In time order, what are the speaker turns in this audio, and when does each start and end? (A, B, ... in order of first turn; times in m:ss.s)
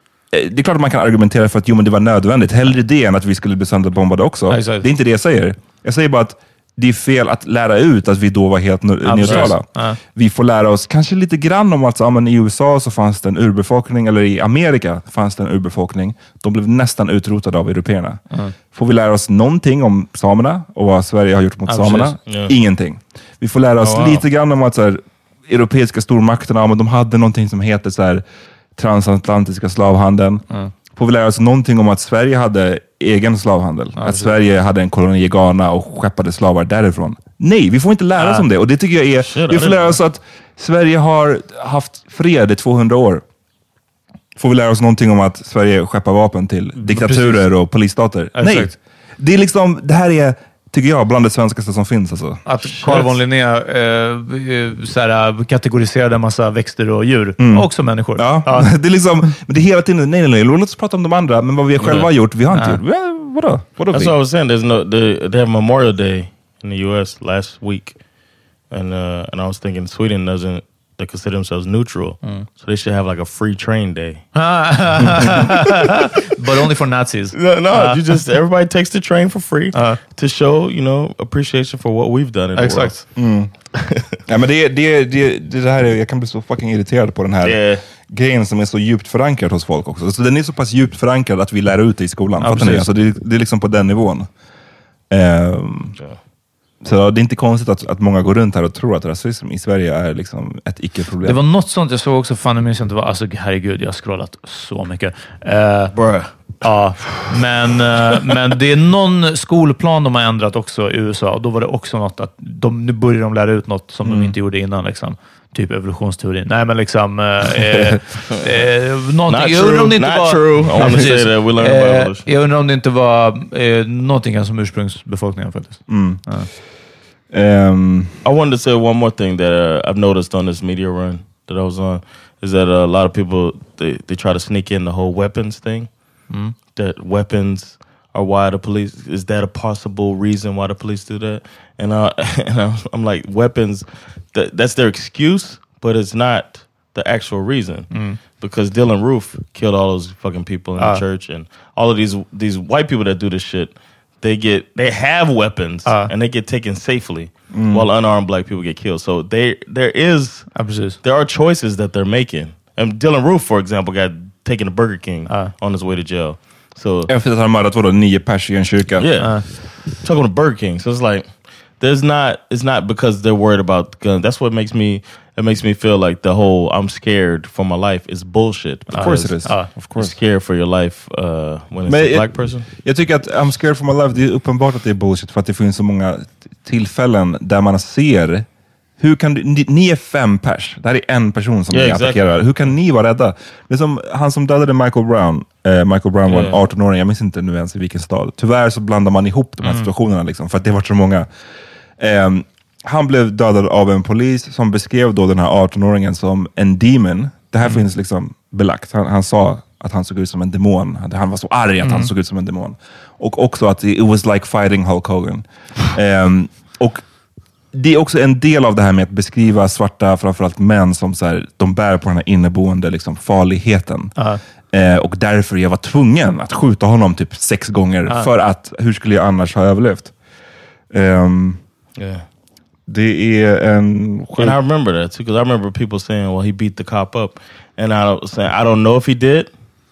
0:00.3-0:18.2 A
0:04.5-0:04.8 B
0:09.0-0:10.0 B
0:09.2-0:09.5 C
0:18.7-0:28.2 A
0:21.7-0:22.2 B
0:22.3-0:22.5 C
0:23.8-0:24.2 C
0:28.8-0:43.2 A
0:34.0-0:34.3 B
0:38.2-0:38.4 B
0:39.3-0:40.0 C
0:44.4-0:52.4 A
0:46.8-0:47.5 B
0:48.4-0:48.7 B
0:52.4-0:58.7 B
0:57.4-1:04.1 A
1:01.8-1:02.1 C
1:02.5-1:02.8 B
1:03.9-1:08.0 C
1:08.7-1:14.3 C
1:14.3-1:18.0 B
1:17.3-1:23.1 C
1:19.7-1:20.0 B
1:22.6-1:22.9 B
1:23.2-1:23.5 A
1:24.2-1:34.3 A
1:27.4-1:27.8 C
1:32.4-1:32.9 B
1:35.1-1:36.0 A
1:36.8-1:41.4 A
1:41.2-1:45.9 B
1:45.9-1:46.5 C
1:46.6-2:06.5 B
1:57.7-1:58.0 A
1:59.3-2:02.3 C
2:00.7-2:01.1 A
2:05.9-2:06.2 A
2:07.3-2:08.1 A
2:08.2-2:15.9 C
2:16.7-2:47.1 C
2:27.9-2:28.2 B
2:30.8-2:31.0 B
2:37.5-2:37.9 A
2:40.5-2:41.0 B
2:47.1-2:49.2 A
2:49.0-3:02.7 C
2:58.9-3:00.1 A
2:58.9-2:59.7 B
3:01.8-3:08.4 A
3:09.0-3:21.3 A
3:11.7-3:12.2 C
3:16.3-3:16.6 C
3:19.6-3:19.9 B
3:22.0-3:37.0 A
3:31.8-3:32.1 B
3:37.7-3:44.2 A
3:44.7-3:50.1 A
3:50.9-3:51.6 A
3:52.0-3:52.2 C
3:52.9-3:54.6 A
3:54.4-3:59.5 C